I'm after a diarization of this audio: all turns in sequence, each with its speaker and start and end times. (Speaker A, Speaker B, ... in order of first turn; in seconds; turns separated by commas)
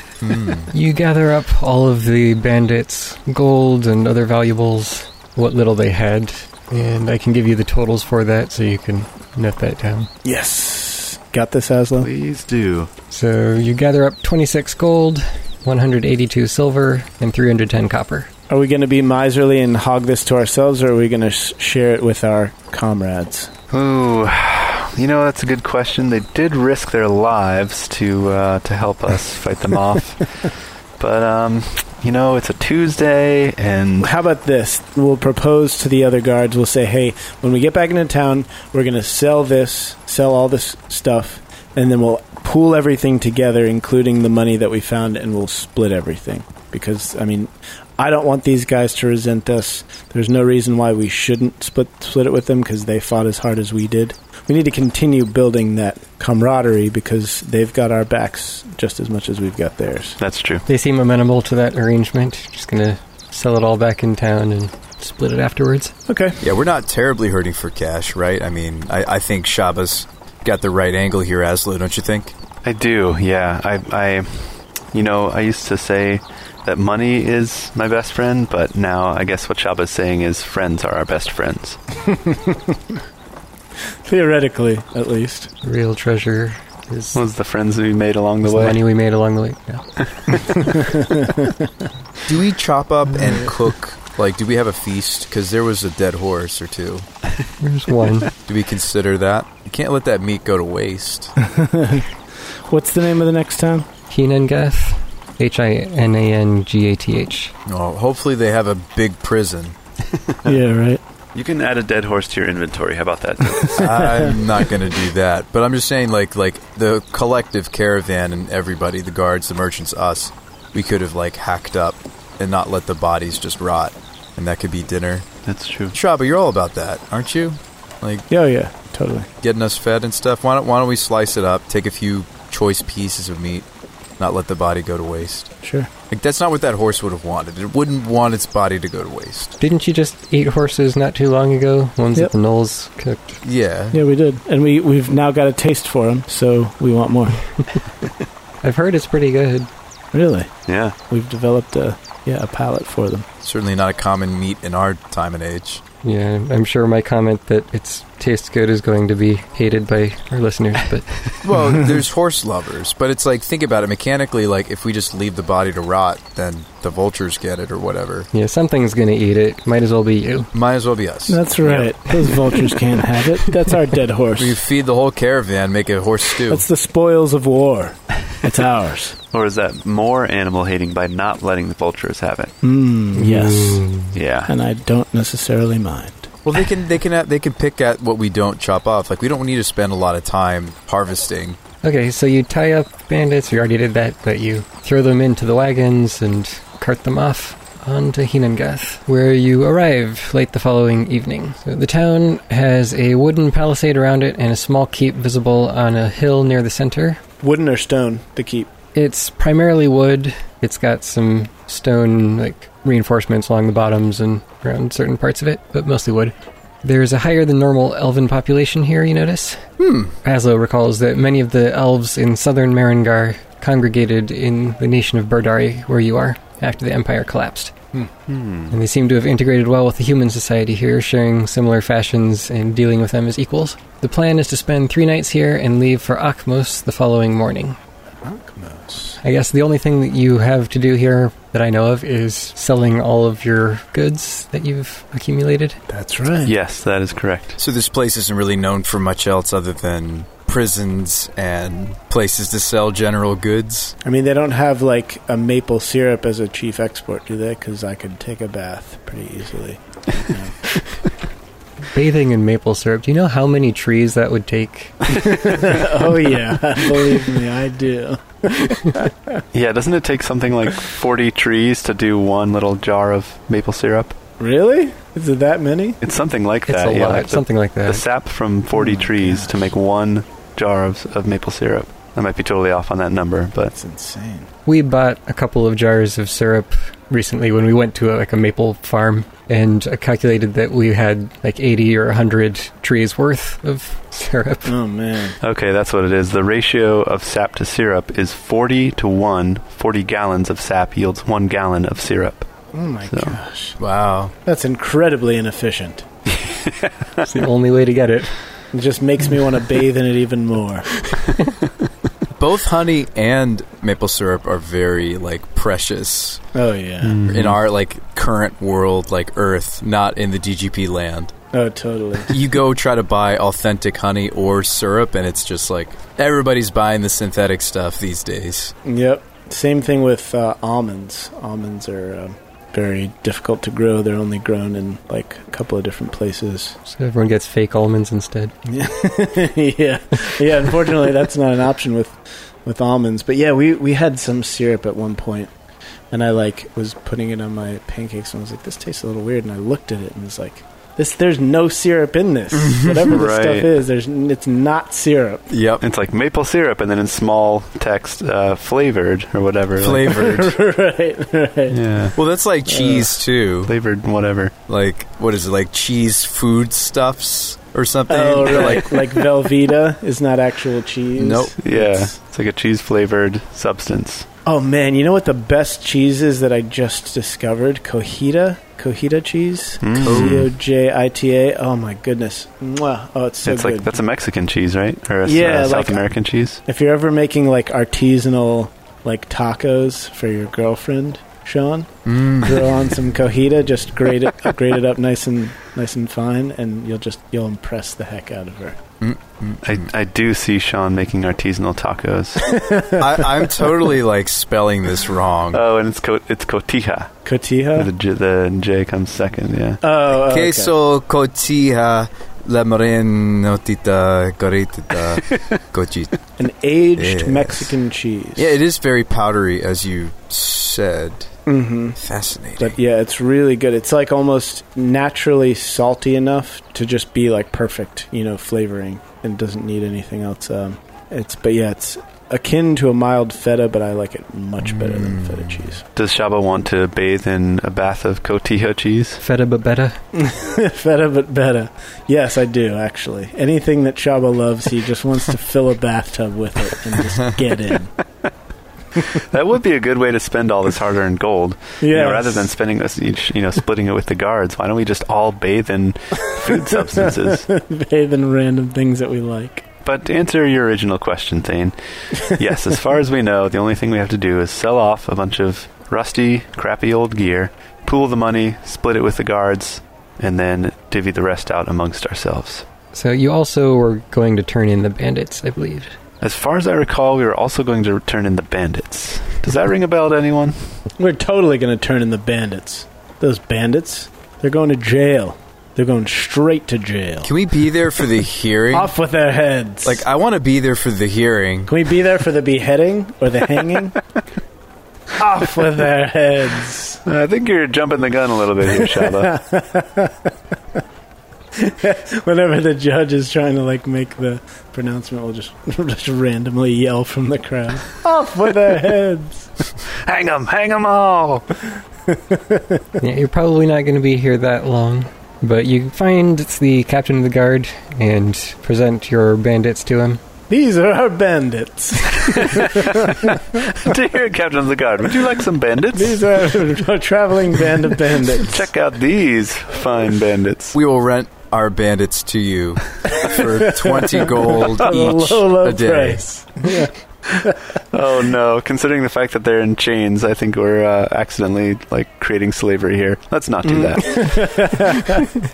Speaker A: 0.2-0.7, Speaker B: 0.7-10.1, Speaker C: 10.2-12.1, Speaker D: 12.0-12.9, Speaker B: 13.1-18.3, Speaker C: 18.5-23.5, Speaker D: 23.7-34.1, Speaker C: 34.0-60.2, Speaker D: 60.2-60.6, Speaker B: 60.7-65.9, Speaker C: 66.1-66.5, Speaker A: 66.4-72.3, Speaker D: 72.6-81.8, Speaker C: 82.1-82.8, Speaker C: 84.0-85.5, Speaker B: 85.6-87.2, Speaker D: 87.2-88.8, Speaker B: 88.4-89.8, Speaker D: 90.1-90.4, Speaker C: 90.7-91.7, Speaker A: 92.3-97.1, Speaker B: 97.6-98.3, Speaker A: 98.5-101.3, Speaker C: 101.4-102.1, Speaker C: 102.7-103.9, Speaker B: 104.1-107.5, Speaker A: 107.7-109.8, Speaker D: 110.1-110.6, Speaker C: 110.5-111.0, Speaker D: 111.3-114.1, Speaker C: 113.6-114.3, Speaker A: 113.8-125.3, Speaker D: 125.5-126.0, Speaker A: 125.9-128.3, Speaker C: 128.3-129.3, Speaker A: 129.4-133.7, Speaker A: 134.2-135.5, Speaker C: 135.6-135.9, Speaker A: 136.1-139.6, Speaker B: 139.6-143.4, Speaker A: 143.4-144.0, Speaker C: 143.9-147.5, Speaker B: 148.6-149.7, Speaker C: 150.1-150.5, Speaker D: 150.7-151.0, Speaker C: 151.1-153.3, Speaker A: 153.4-155.8, Speaker B: 156.0-161.2, Speaker A: 161.4-168.3, Speaker B: 168.3-170.5, Speaker A: 170.5-171.4, Speaker C: 171.3-174.6, Speaker D: 171.6-171.9, Speaker A: 174.4-176.7, Speaker C: 176.5-179.2, Speaker D: 179.3-182.5, Speaker C: 182.6-183.8, Speaker B: 183.1-184.2, Speaker D: 184.1-184.5, Speaker C: 184.5-186.3, Speaker A: 186.4-191.6, Speaker B: 191.8-207.2, Speaker C: 207.4-208.7, Speaker B: 208.9-219.7, Speaker A: 219.8-220.1, Speaker B: 220.2-227.7, Speaker D: 228.3-228.8, Speaker B: 228.7-237.8, Speaker C: 238.2-239.2, Speaker B: 239.2-245.8, Speaker C: 245.9-246.5, Speaker D: 246.4-247.6, Speaker A: 247.6-253.9, Speaker C: 254.0-260.6, Speaker B: 261.9-264.9, Speaker C: 265.1-269.4, Speaker D: 269.5-274.2, Speaker C: 274.4-276.0, Speaker D: 276.0-283.7, Speaker B: 276.7-278.0, Speaker C: 278.7-279.6, Speaker C: 283.7-284.5, Speaker B: 284.7-294.8, Speaker C: 294.7-295.4, Speaker D: 295.4-302.5, Speaker C: 302.7-303.8, Speaker D: 303.1-303.4, Speaker A: 303.8-304.3, Speaker C: 304.4-306.1, Speaker D: 306.3-307.2, Speaker B: 307.2-308.3, Speaker C: 308.7-310.9, Speaker A: 312.4-316.4, Speaker C: 316.6-317.2, Speaker D: 317.0-317.6, Speaker A: 317.3-321.3, Speaker C: 321.5-322.4, Speaker A: 322.3-328.8, Speaker C: 328.9-336.8, Speaker B: 336.9-338.5, Speaker C: 338.7-345.5, Speaker C: 346.1-355.4, Speaker A: 352.5-353.2, Speaker D: 353.1-353.7, Speaker A: 355.5-355.8, Speaker D: 355.8-360.1, Speaker A: 359.8-360.6, Speaker C: 360.0-361.8, Speaker D: 361.7-362.2, Speaker A: 362.2-363.7, Speaker C: 362.7-363.1, Speaker D: 363.7-364.5, Speaker A: 364.7-369.3, Speaker C: 368.1-372.1, Speaker A: 371.2-371.5, Speaker D: 371.6-374.3, Speaker C: 374.5-383.9, Speaker D: 379.8-380.5, Speaker A: 380.0-380.5, Speaker D: 383.4-386.6, Speaker C: 385.2-386.1, Speaker C: 386.7-398.8, Speaker A: 392.1-392.7, Speaker A: 399.0-399.9, Speaker D: 399.6-402.5, Speaker C: 402.4-403.6, Speaker A: 403.0-405.6, Speaker D: 405.5-407.1, Speaker C: 407.2-407.9, Speaker D: 407.8-409.8, Speaker C: 409.8-410.7, Speaker A: 410.1-416.1, Speaker D: 415.2-415.6, Speaker C: 416.4-418.5, Speaker A: 417.0-417.8, Speaker A: 418.4-421.3, Speaker C: 421.5-422.0, Speaker A: 422.0-422.8, Speaker C: 422.6-435.8, Speaker A: 434.6-435.8, Speaker D: 436.0-439.2, Speaker B: 439.2-440.0, Speaker C: 440.1-447.9, Speaker D: 449.0-457.5, Speaker C: 451.8-452.5, Speaker C: 456.5-459.6, Speaker D: 459.9-472.7, Speaker B: 472.9-475.9, Speaker D: 476.2-480.6, Speaker C: 481.0-487.3, Speaker A: 487.2-488.9, Speaker C: 488.7-490.0, Speaker A: 489.8-491.7, Speaker C: 491.7-494.0, Speaker C: 495.2-497.0, Speaker D: 497.1-499.3, Speaker C: 498.8-500.3, Speaker C: 501.6-509.5, Speaker D: 509.9-511.5, Speaker C: 512.1-513.0, Speaker B: 513.0-520.2, Speaker C: 520.5-523.7, Speaker D: 522.3-526.4, Speaker C: 525.9-528.6, Speaker D: 528.3-530.8, Speaker A: 530.7-536.2, Speaker C: 533.1-537.6, Speaker D: 534.8-535.2, Speaker D: 537.9-544.8, Speaker C: 543.6-545.5